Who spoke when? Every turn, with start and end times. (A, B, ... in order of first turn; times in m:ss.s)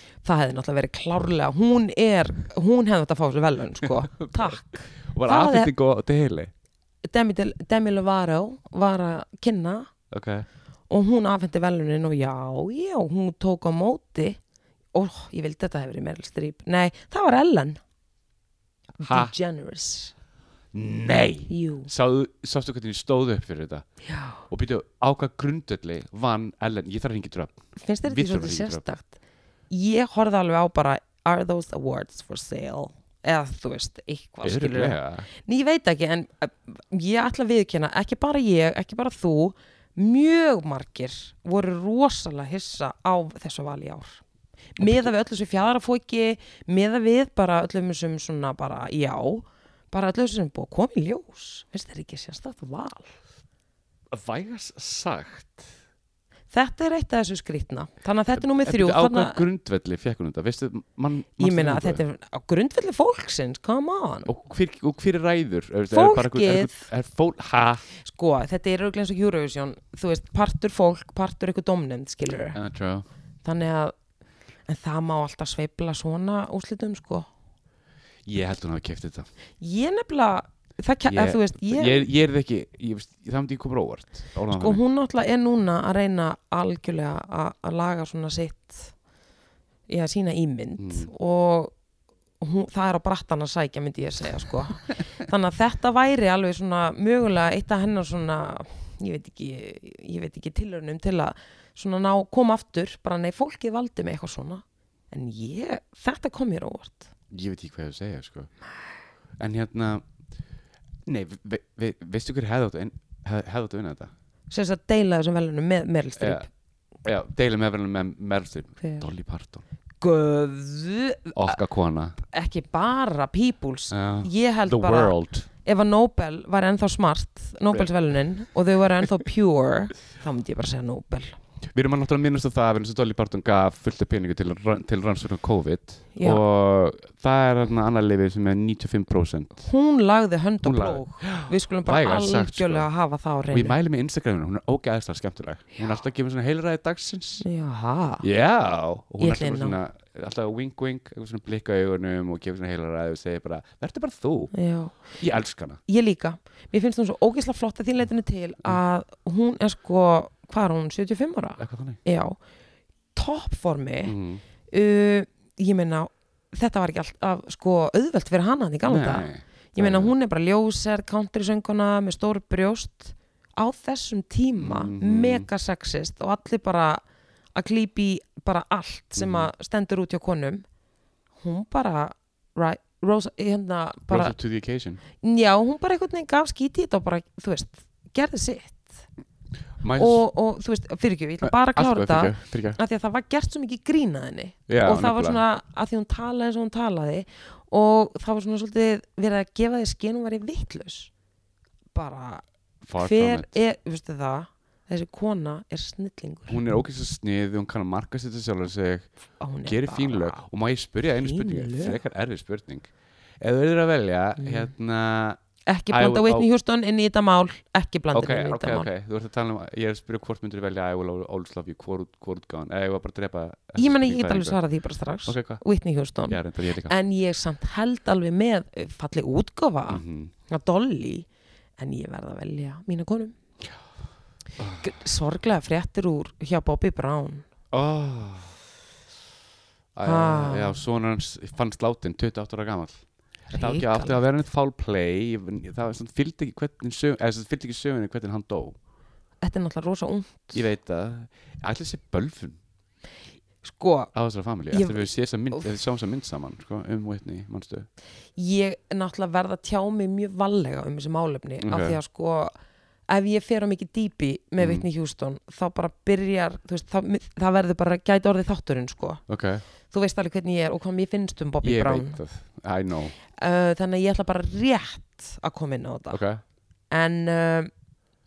0:00.2-0:05.7 A
0:03.8-0:04.5 B
0:05.1-0:06.5 B
0:07.0-0:09.9 A
0:10.1-0:10.5 B
0:10.9-0:14.4 A
0:14.9-0:17.8 A
0:19.0-0:20.1 A
0:19.0-0:19.3 B
0:20.7-0:23.8 B
0:21.5-0:21.9 A
0:24.0-0:24.4 A
0:24.5-0:28.8 B
0:27.8-0:29.2 A
0:29.7-0:44.2 A
0:34.4-0:35.3 B
0:44.8-0:53.1 A
0:44.8-0:45.1 B
0:54.1-0:55.7 B
0:56.5-0:59.4 A
0:58.4-1:02.0 B
1:01.4-1:04.3 A
1:04.3-1:07.8 B
1:05.9-1:06.9 A
1:08.0-1:12.6 A
1:12.5-1:13.0 B
1:13.4-1:13.9 A
1:14.7-1:17.3 A
1:18.3-1:19.3 B
1:19.6-1:22.1 A
1:21.1-1:24.8 B
1:24.5-1:28.9 A
1:29.9-1:31.7 A
1:30.8-1:31.1 B
1:32.4-1:47.1 A
1:47.3-1:48.5 B
1:49.4-1:50.0 B
1:51.0-1:54.1 B
1:54.5-1:56.5 A
1:56.2-1:56.5 B
1:57.0-1:59.6 B
1:58.8-1:59.1 A
2:00.0-2:01.6 A
2:01.4-2:02.2 B
2:02.3-2:11.4 A
2:03.9-2:05.5 B
2:11.7-2:19.7 B
2:16.2-2:16.4 A
2:19.6-2:23.8 A
2:20.6-2:22.9 B
2:23.5-2:27.4 B
2:27.4-2:28.2 A
2:28.2-2:34.5 B
2:29.2-2:29.8 A
2:34.5-2:35.1 A
2:35.2-2:35.8 B
2:35.9-2:42.4 A
2:41.6-2:42.0 B
2:43.2-2:44.2 A
2:44.0-2:44.4 B
2:44.7-2:57.0 A
2:48.9-2:50.1 B
2:54.6-2:55.5 B
2:57.6-3:00.6 A
2:59.2-2:59.5 B
3:01.4-3:04.4 A
3:04.1-3:05.0 B
3:05.2-3:09.0 A
3:09.8-3:10.2 B
3:10.0-3:21.1 A
3:11.4-3:12.8 B
3:14.7-3:15.4 B
3:21.9-3:22.4 A
3:22.8-3:23.5 B
3:23.0-3:26.6 A
3:26.5-3:29.1 B
3:29.4-3:30.4 A
3:29.6-3:32.9 B
3:31.2-3:32.0 A
3:33.4-3:35.4 B
3:34.4-3:34.7 A
3:35.7-3:38.9 A
3:35.9-3:36.5 B
3:38.1-3:44.6 B
3:43.8-3:51.3 A
3:45.3-3:45.6 B
3:46.3-3:46.9 B
3:49.9-3:50.3 B
3:51.8-3:53.4 A
3:54.6-3:54.9 B
3:54.8-3:57.5 A
3:57.7-3:58.5 B
4:00.0-4:03.0 B
4:00.0-4:00.8 A
4:03.5-4:04.2 A
4:03.5-4:08.8 B
4:09.4-4:10.6 A
4:10.5-4:12.6 B
4:13.6-4:14.1 A
4:14.1-4:17.9 B
4:14.7-4:15.6 A
4:18.4-4:22.5 A
4:21.6-4:22.0 B
4:23.1-4:29.2 A
4:24.6-4:24.8 B
4:29.3-4:29.6 B
4:29.9-4:32.2 A
4:31.6-4:33.2 B
4:33.4-4:36.2 A
4:36.1-4:36.4 B
4:36.9-4:37.7 A